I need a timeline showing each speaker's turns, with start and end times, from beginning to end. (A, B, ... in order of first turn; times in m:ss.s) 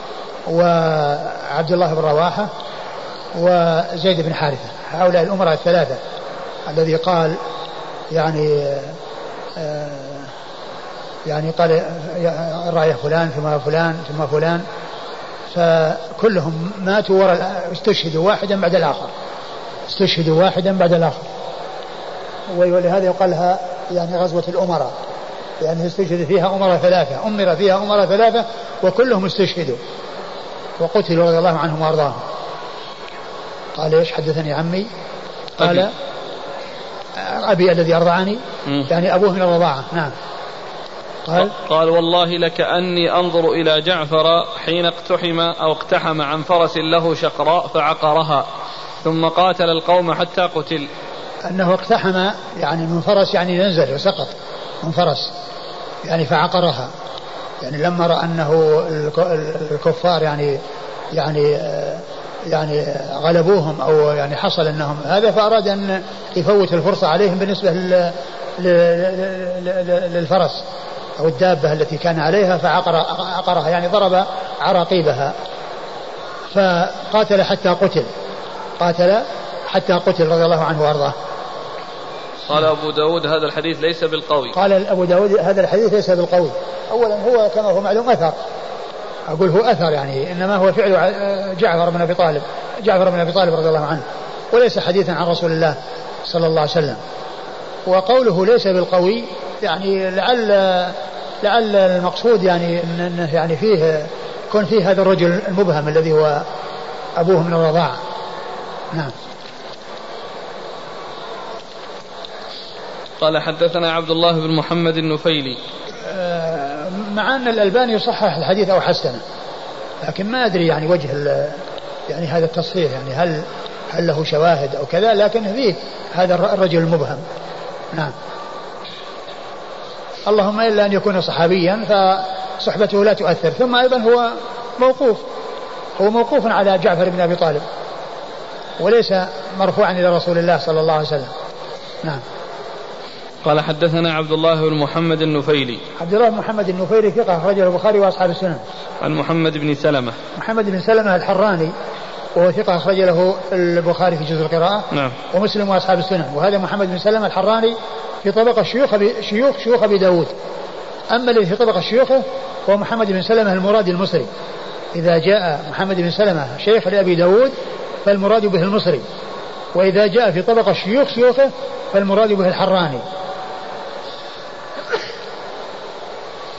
0:00.5-0:02.5 A
0:03.3-0:06.0 A
0:06.7-0:07.4 A
0:08.1-0:09.0 A
0:09.6-0:10.3 A
0:11.2-0:14.6 A
0:15.5-0:19.1 A
0:19.9-0:21.2 A
0:22.5-0:24.9 A
0:25.6-0:29.8 A
0:30.8-0:32.2 A
0:33.8-0:34.9 A
0:35.6-0:35.9 A
0:35.6-0:35.9 B
0:37.2-0:40.1 A
0:41.2-0:41.5 A
0:41.4-0:48.4 B
0:49.0-0:50.9 B
0:51.4-0:55.3 A
0:56.0-0:56.9 A
0:57.6-1:00.6 A
1:01.1-1:10.6 A
1:11.2-1:15.3 A
1:16.5-1:18.1 A
1:18.8-1:21.1 A
1:22.5-1:24.5 B
1:24.5-1:28.4 A
1:29.3-1:37.0 A
1:37.9-1:46.4 A
1:47.2-1:48.0 A
1:53.2-1:55.6 B
1:56.0-1:59.2 A
2:00.0-2:07.2 A
2:10.3-2:15.2 A
2:16.0-2:17.6 A
2:18.8-2:21.3 A
2:23.4-2:25.8 B
2:26.0-2:28.6 A
2:29.0-2:30.2 B
2:30.4-2:31.7 A
2:32.3-2:40.3 A
2:34.9-2:35.2 B
2:41.1-2:44.3 A
2:44.9-2:47.5 A
2:48.0-2:49.0 A
2:49.7-2:53.0 A